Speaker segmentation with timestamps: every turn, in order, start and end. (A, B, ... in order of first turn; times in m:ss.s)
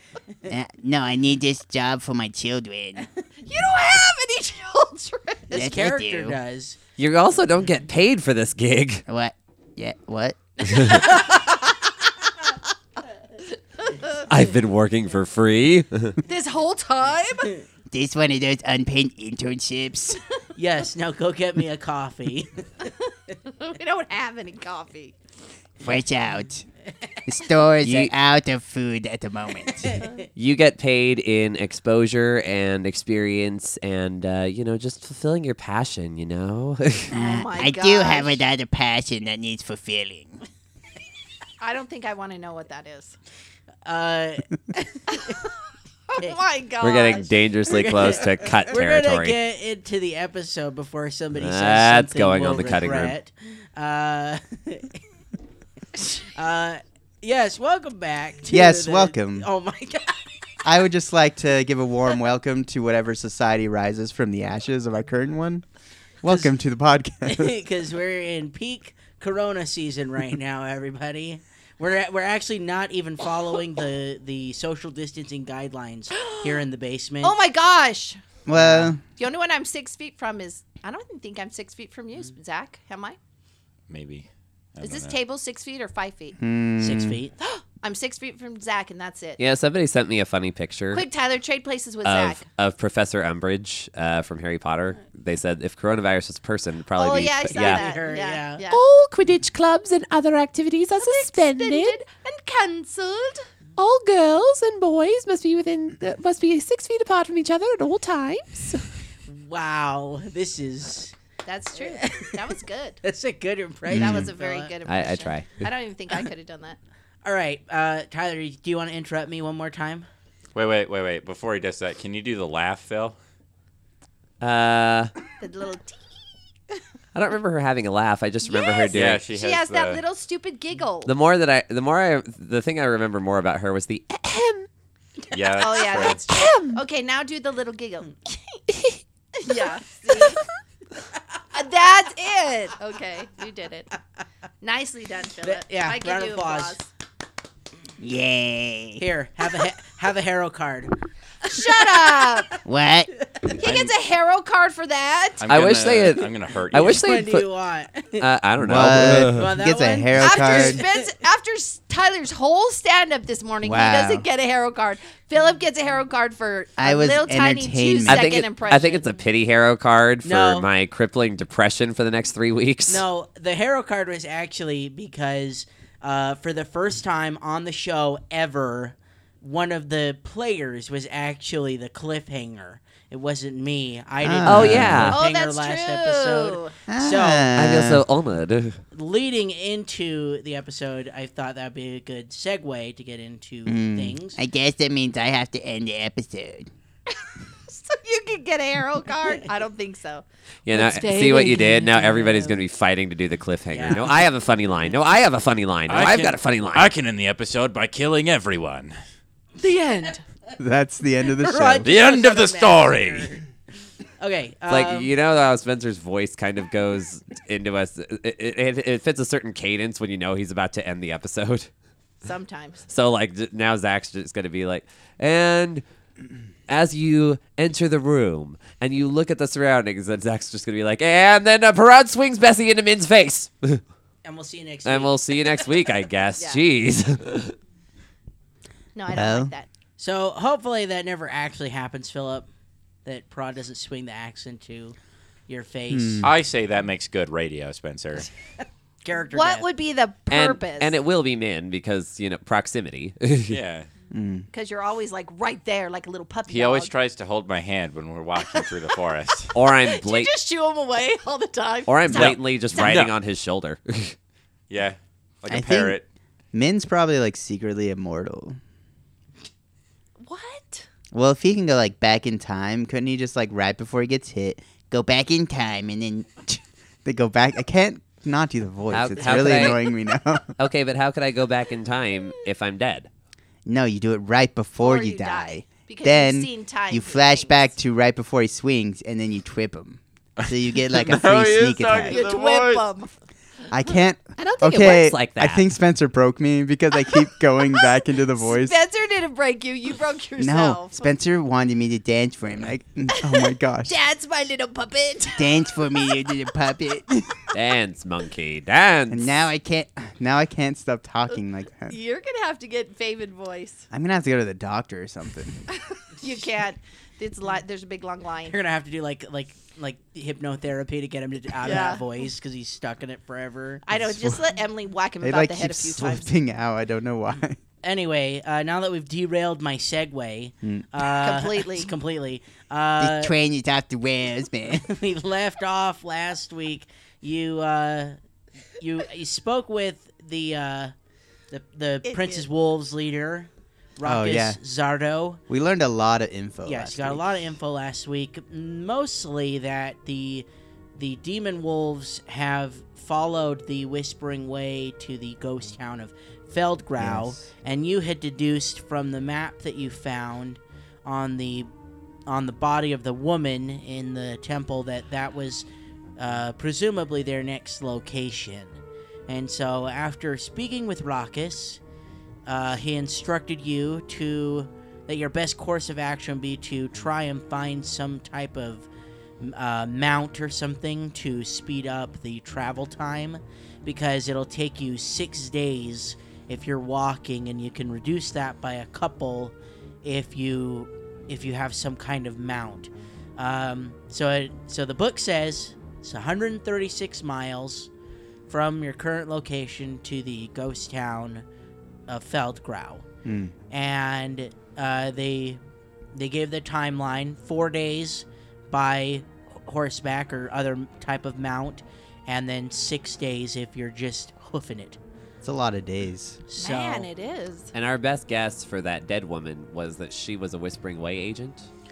0:00.5-0:03.1 A
0:03.4-0:05.6 B
0:05.5-0:06.8 C
0:05.5-0:06.4 A
0:07.0-0:09.0 D
0:09.1-0:10.4 A
0:10.7-0:11.6 B
0:14.3-0:16.2 D
0:16.2-0:17.5 B
0:17.9-0:20.2 A
0:20.6-0:22.7 C
0:23.4-0:25.2 B
0:25.8-0:26.7 A
0:27.3-0:29.9 A
0:27.8-0:28.1 D
0:29.7-0:30.2 C
0:30.4-0:37.1 D
0:37.1-0:40.4 A
0:37.1-0:38.4 B
0:41.6-0:43.2 B
0:43.8-0:45.1 C
0:45.1-0:45.5 B
0:46.1-0:47.3 B
0:46.8-0:49.4 D
0:47.7-0:55.0 C
0:51.4-0:53.1 D
0:56.2-1:00.4 C
0:58.5-0:59.5 E
1:00.6-1:05.7 E
1:06.2-1:07.6 E
1:07.2-1:17.4 C
1:16.2-1:16.6 B
1:17.2-1:18.2 B
1:18.5-1:19.0 E
1:18.5-1:18.9 C
1:19.2-1:23.2 B
1:23.9-1:25.2 F
1:24.8-1:26.4 B
1:26.4-1:27.2 E
1:26.8-1:27.4 C
1:27.4-1:29.4 B
1:29.4-1:31.1 D
1:30.9-1:32.4 B
1:32.0-1:37.9 D
1:37.0-1:38.8 B
1:37.5-1:38.7 C
1:38.7-1:42.0 G
1:41.0-1:43.5 B
1:43.8-1:48.8 G
1:49.3-1:51.2 C
1:51.4-1:53.0 B
1:51.8-1:52.4 C
1:53.0-1:54.7 C
1:53.9-1:54.3 E
1:53.9-1:56.8 B
1:54.9-1:55.7 D
1:57.2-2:00.1 C
2:00.6-2:03.2 F
2:04.4-2:05.1 D
2:05.4-2:06.0 B
2:07.1-2:09.2 D
2:08.4-2:11.1 B
2:08.9-2:10.0 F
2:11.0-2:14.7 D
2:15.3-2:16.3 F
2:15.4-2:18.6 B
2:16.2-2:16.8 G
2:18.7-2:19.0 G
2:19.4-2:20.4 B
2:21.5-2:23.9 B
2:24.6-2:26.9 B
2:25.4-2:26.8 C
2:28.0-2:29.0 A
2:29.0-2:31.0 C
2:31.4-2:32.6 B
2:31.5-2:32.4 C
2:32.6-2:33.1 A
2:33.6-2:35.4 B
2:33.6-2:33.9 F
2:35.4-2:37.0 F
2:35.5-2:37.5 D
2:36.8-2:41.0 C
2:38.2-2:39.5 D
2:38.6-2:40.8 E
2:40.2-2:49.1 B
2:43.6-2:44.3 E
2:46.8-2:48.3 E
2:46.8-2:48.2 A
2:48.1-2:53.0 D
2:50.2-2:50.7 C
2:52.9-3:07.5 C
3:04.2-3:05.2 E
3:04.4-3:05.2 D
3:05.1-3:06.8 B
3:06.9-3:08.0 E
3:07.6-3:08.8 D
3:08.9-3:14.4 C
3:13.7-3:14.1 E
3:14.3-3:16.7 A
3:17.7-3:20.2 B
3:20.7-3:26.9 D
3:20.7-3:22.6 G
3:23.7-3:24.2 C
3:25.9-3:29.0 F
3:29.6-3:30.1 C
3:30.6-3:31.9 E
3:31.4-3:33.4 C
3:31.8-3:33.3 F
3:34.2-3:35.1 C
3:34.7-3:41.7 D
3:42.2-3:42.8 B
3:42.9-3:45.8 D
3:46.7-3:53.8 D
3:54.2-3:55.4 C
3:54.8-3:57.6 D
3:59.0-3:59.7 B
3:59.1-3:59.5 E
4:00.0-4:02.5 C
4:03.0-4:05.0 C
4:05.5-4:06.3 C
4:05.9-4:06.4 E
4:06.2-4:08.3 F
4:09.0-4:09.7 C
4:09.3-4:11.0 B
4:10.3-4:13.6 D
4:13.5-4:13.9 F
4:14.1-4:14.5 E
4:14.5-4:16.9 B
4:16.5-4:19.6 F
4:18.4-4:19.0 B
4:19.5-4:20.3 D
4:19.6-4:23.0 B
4:21.9-4:24.2 D
4:22.1-4:23.1 F
4:24.7-4:26.0 F
4:25.5-4:26.0 E
4:26.5-4:28.6 E
4:30.2-4:30.9 B
4:31.1-4:35.1 E
4:35.0-4:36.2 A
4:36.2-4:40.5 E
4:38.9-4:39.8 D
4:40.6-4:43.1 D
4:43.7-4:52.2 E
4:44.8-4:47.7 B
4:50.4-4:52.9 F
4:52.1-4:53.1 B
4:53.7-4:58.8 E
4:54.4-4:55.7 D
4:58.4-5:01.0 B
5:00.4-5:04.0 E
5:03.2-5:06.2 B
5:05.4-5:07.0 A
5:07.0-5:07.4 E
5:07.5-5:09.4 D
5:09.1-5:12.0 E
5:11.9-5:13.9 B
5:13.9-5:15.6 E
5:15.8-5:18.6 B
5:18.5-5:23.8 C
5:21.6-5:22.1 B
5:23.9-5:26.3 B
5:23.9-5:24.4 E
5:25.2-5:27.6 E
5:27.8-5:33.3 C
5:30.6-5:30.9 E
5:31.1-5:31.9 B
5:33.0-5:34.8 A
5:34.7-5:38.2 C
5:38.8-5:40.9 C
5:41.5-5:45.4 C
5:42.1-5:42.5 B
5:44.0-5:44.6 E
5:45.5-5:47.4 E
5:46.6-6:01.7 C
5:57.0-5:57.5 E
6:02.3-6:05.7 C
6:06.2-6:08.8 C
6:09.3-6:11.8 C
6:12.5-6:18.9 C
6:19.4-6:37.9 C
6:38.5-6:41.4 C
6:42.1-6:43.0 C
6:43.2-6:43.5 E
6:43.7-6:45.6 C
6:46.1-6:55.0 C
6:55.4-6:56.4 E
6:56.5-6:57.1 C
6:56.6-6:57.7 B
6:57.7-7:01.7 D